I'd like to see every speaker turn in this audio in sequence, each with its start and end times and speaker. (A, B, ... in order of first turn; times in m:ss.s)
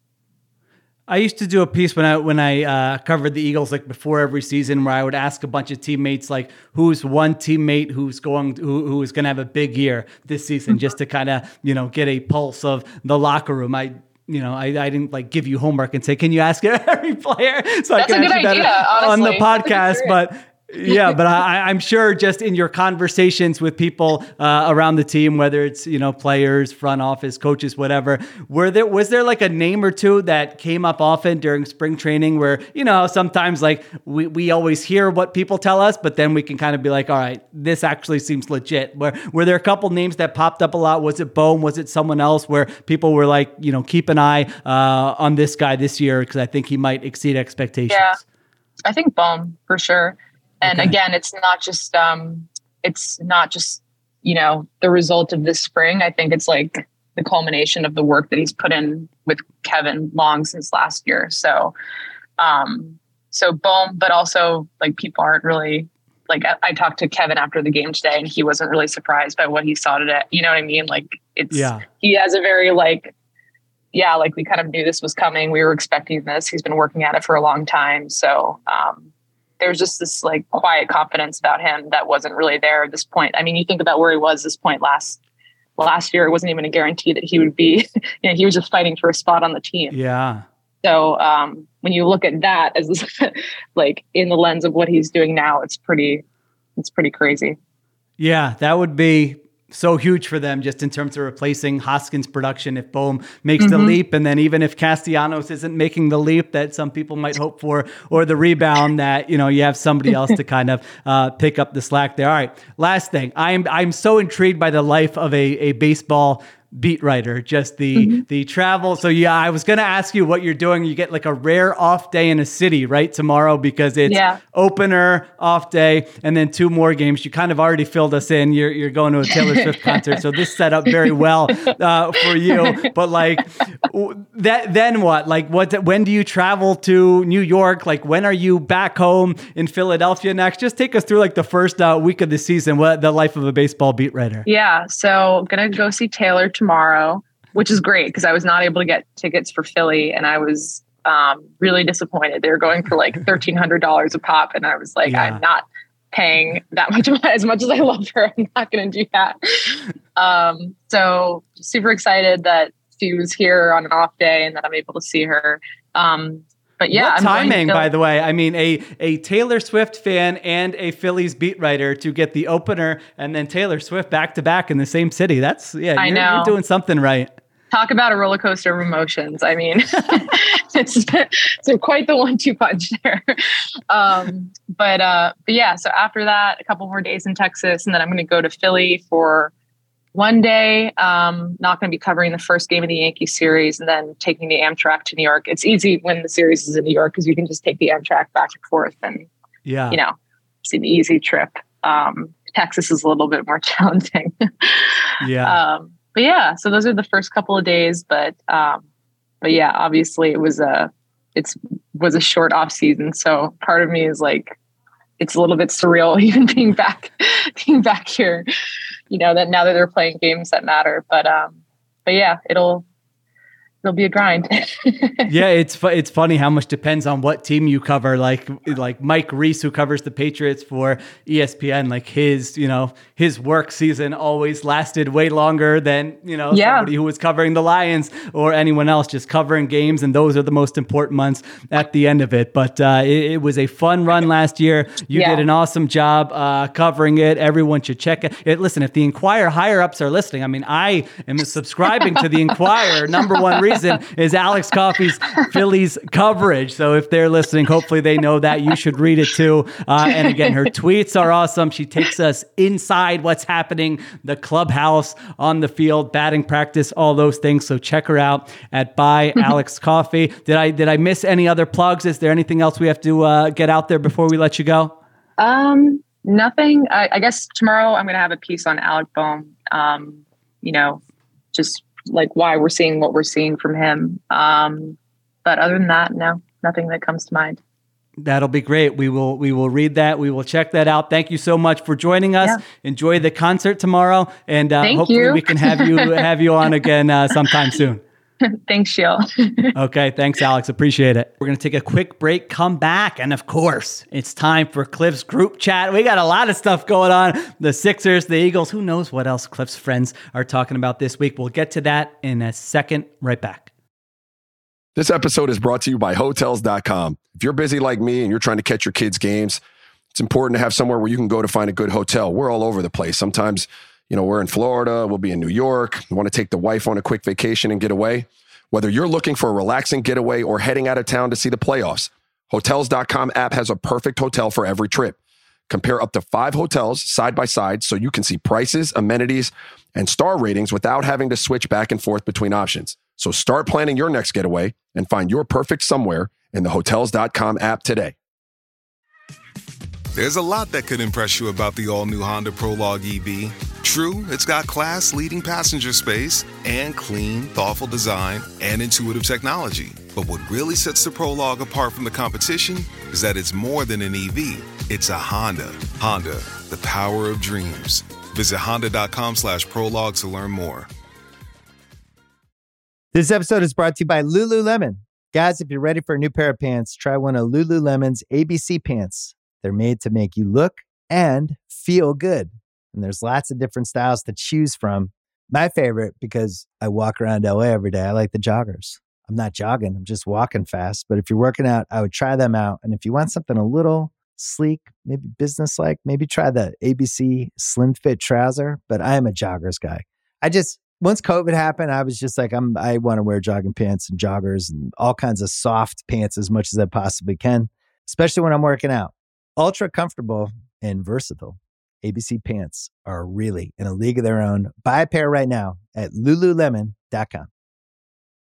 0:01.1-0:48.2 A
0:18.0-0:20.2 B
0:20.9-0:21.1 B
0:47.9-0:48.2 B
0:48.9-1:01.7 B
0:50.6-0:50.9 A
1:02.4-1:13.1 B
1:11.5-1:11.8 A
1:13.9-1:19.1 B
1:19.6-1:25.2 B
1:25.8-1:29.9 B
1:29.9-1:30.4 A
1:30.8-1:36.2 B
1:36.8-1:37.6 B
1:38.2-2:24.4 A
1:43.6-1:44.0 B
1:58.0-1:58.2 B
2:04.0-2:04.4 B
2:09.8-2:10.2 B
2:12.5-2:12.8 B
2:24.4-2:47.9 B
2:35.0-2:35.4 A
2:46.9-2:57.3 A
2:56.0-2:56.6 B
2:57.7-3:03.4 B
3:03.9-3:09.5 B
3:10.1-3:19.3 B
3:19.6-3:20.0 A
3:19.9-3:28.8 B
3:25.2-3:25.6 A
3:29.4-3:34.5 B
3:35.2-3:38.4 B
3:39.1-3:42.9 B
3:43.8-3:45.3 B
3:45.3-4:35.0 A
3:56.5-3:56.9 B
4:05.1-4:05.4 B
4:13.5-4:13.8 B
4:35.4-4:41.0 B
4:41.5-4:47.6 B
4:48.2-4:58.0 A
4:54.8-4:56.2 B
4:58.4-4:59.7 B
4:59.7-5:13.7 A
5:15.0-5:19.6 C
5:20.1-5:35.2 C
5:35.7-5:48.1 C
5:50.1-6:10.9 D
6:13.1-6:57.5 E